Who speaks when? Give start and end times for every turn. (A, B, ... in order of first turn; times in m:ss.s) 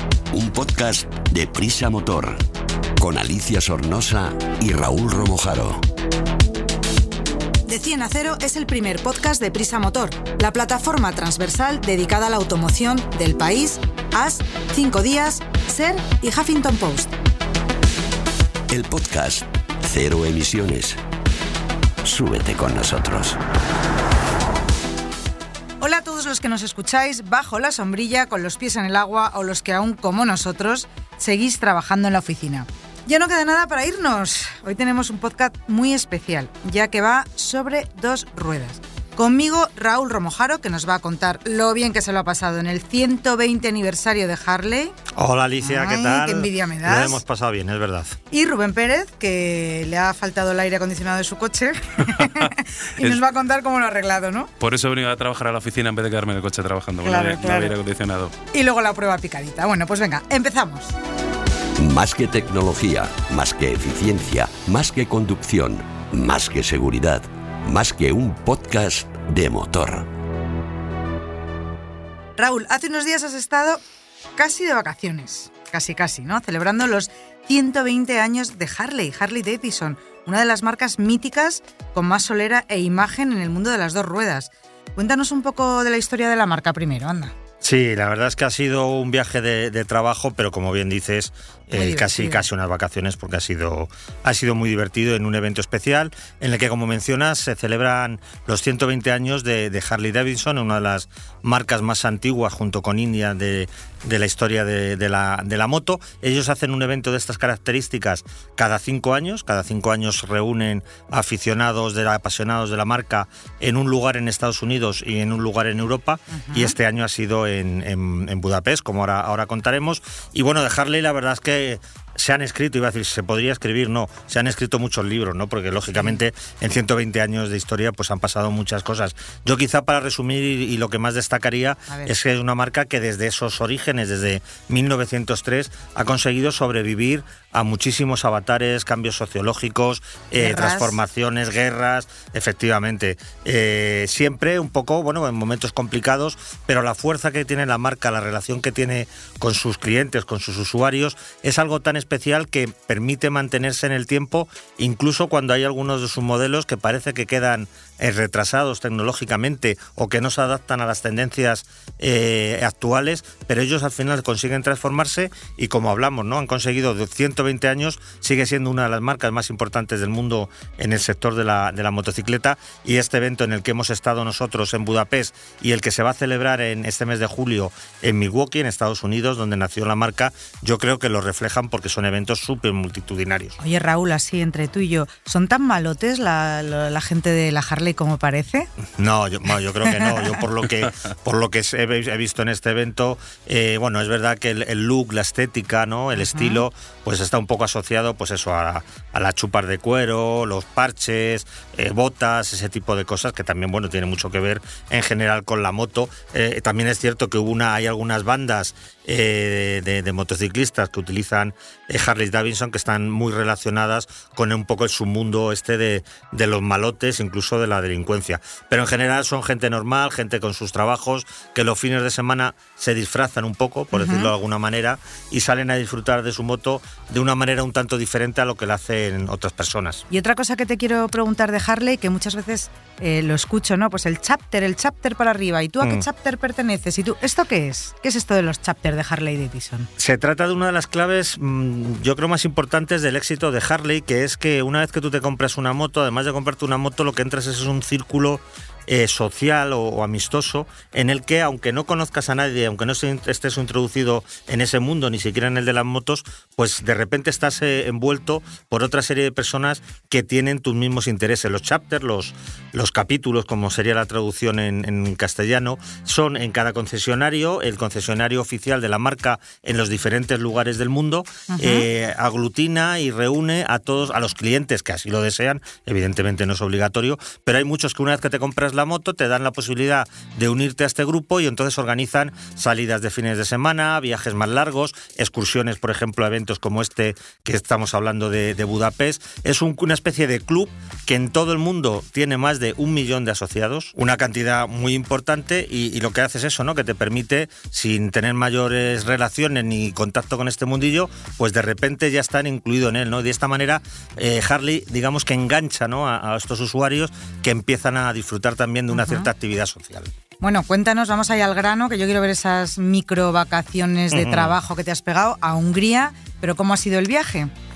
0:00.3-0:02.4 A
0:03.0-0:05.8 A
0:07.7-0:17.1 B
0:18.7-0:21.0 A
0:22.0-0:23.4 A
0:25.8-0:45.0 B
0:45.1-0:48.2 C
0:45.6-0:47.2 B
0:48.3-0:54.5 B
0:54.6-0:58.3 D
0:57.0-0:57.8 B
0:58.5-1:01.0 B
1:01.8-1:10.1 A
1:12.4-1:13.8 B
1:14.4-1:27.3 B
1:27.6-3:03.6 C
1:31.7-1:32.5 B
1:56.3-1:56.8 B
2:06.0-2:06.2 B
2:20.4-2:21.0 B
3:03.6-3:08.7 B
3:09.0-3:50.1 C
3:16.2-3:16.6 B
3:43.9-3:44.3 B
3:50.1-3:59.9 B
4:00.0-5:10.1 C
4:31.5-4:31.9 B
5:08.9-5:09.3 B
5:10.4-5:17.5 B
5:14.1-5:14.5 C